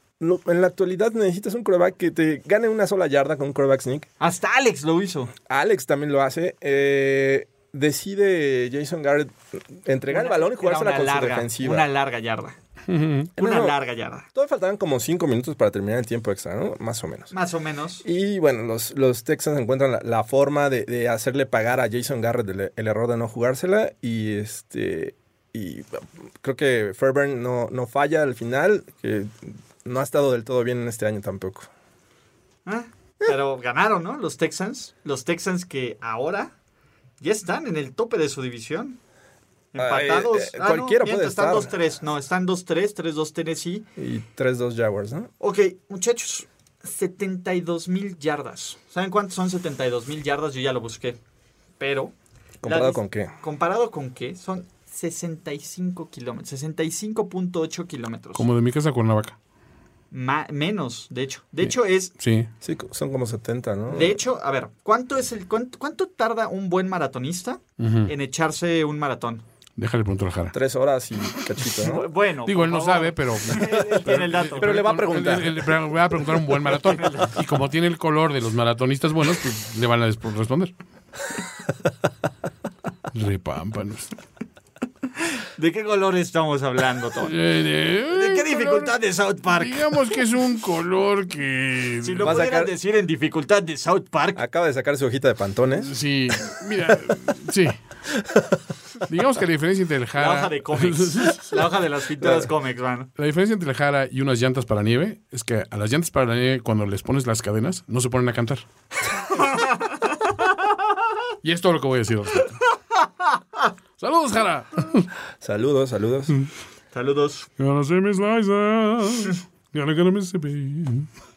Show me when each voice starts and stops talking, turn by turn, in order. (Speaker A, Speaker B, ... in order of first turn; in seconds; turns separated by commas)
Speaker A: 0.2-4.1, Speaker B: 4.2-5.3, Speaker A: 5.5-11.8, Speaker B: 10.1-12.6, Speaker C: 12.9-13.3, Speaker A: 13.4-13.8, Speaker B: 13.4-14.3, Speaker A: 14.3-17.3, Speaker B: 17.3-18.0, Speaker A: 18.0-31.7, Speaker B: 32.6-36.5, Speaker B: 37.2-39.0, Speaker B: 39.7-43.9, Speaker A: 39.8-41.8, Speaker A: 44.0-45.3, Speaker B: 45.4-51.2, Speaker B: 51.8-52.1, Speaker A: 52.6-53.3, Speaker B: 52.6-58.5, Speaker C: 58.4-59.4, Speaker B: 60.1-62.1, Speaker C: 61.6-62.5, Speaker A: 62.6-64.2, Speaker B: 63.9-69.5, Speaker C: 67.8-68.1, Speaker C: 69.8-70.5, Speaker A: 70.5-72.0, Speaker B: 71.8-75.0, Speaker C: 72.5-80.7, Speaker A: 74.6-75.7, Speaker B: 76.8-77.4, Speaker C: 83.1-84.1, Speaker B: 85.4-87.4, Speaker C: 87.2-88.9, Speaker B: 88.1-90.1, Speaker C: 89.5-92.4, Speaker B: 92.0-94.4, Speaker A: 92.2-92.7, Speaker A: 94.4-95.9, Speaker C: 95.8-97.8, Speaker C: 99.0-101.5, Speaker B: 100.2-103.1, Speaker A: 102.2-102.5, Speaker C: 103.2-108.7, Speaker B: 109.2-110.3, Speaker C: 111.4-112.6, Speaker C: 114.0-115.1, Speaker A: 115.4-116.3, Speaker B: 116.9-117.5, Speaker C: 117.6-121.1